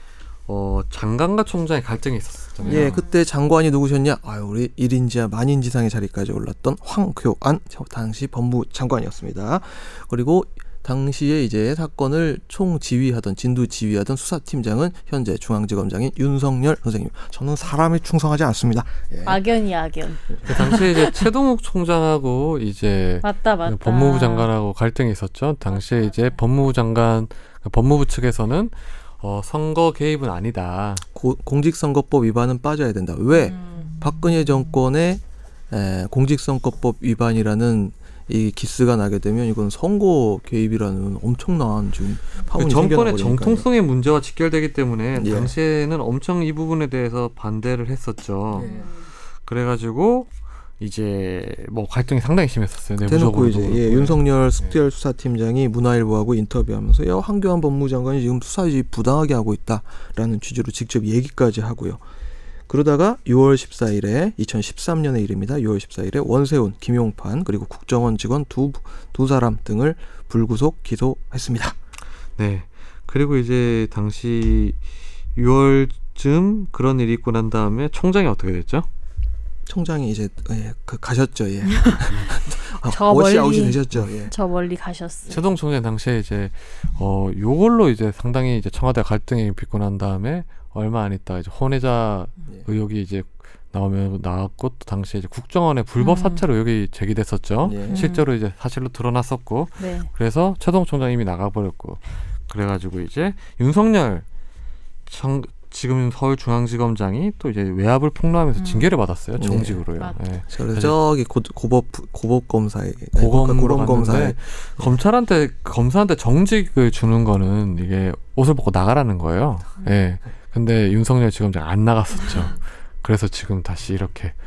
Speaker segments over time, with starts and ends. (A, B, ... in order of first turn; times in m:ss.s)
0:00.5-0:03.0 A
0:02.6-0:03.1 B
0:02.6-0:19.4 C
0:19.2-0:21.2 B
0:20.4-0:31.0 A
0:23.2-0:24.5 B
0:25.7-0:26.3 B
0:31.1-0:43.7 C
0:33.3-0:34.0 B
0:42.5-0:48.7 A
0:45.1-0:45.5 C
0:48.5-0:48.9 C
0:48.5-0:49.1 B
0:49.4-0:54.8 A
0:53.0-1:02.0 C
1:02.7-1:11.8 C
1:12.4-1:14.8 A
1:15.3-1:18.9 A
1:19.6-1:24.3 C
1:22.9-1:25.4 B
1:25.3-1:44.2 A
1:36.0-1:36.4 B
1:37.6-1:38.1 C
1:37.9-1:38.3 B
1:39.8-1:40.1 B
1:45.1-1:50.9 A
1:48.6-1:48.9 B
1:49.4-1:49.8 C
1:50.5-1:54.8 C
1:53.1-2:04.4 A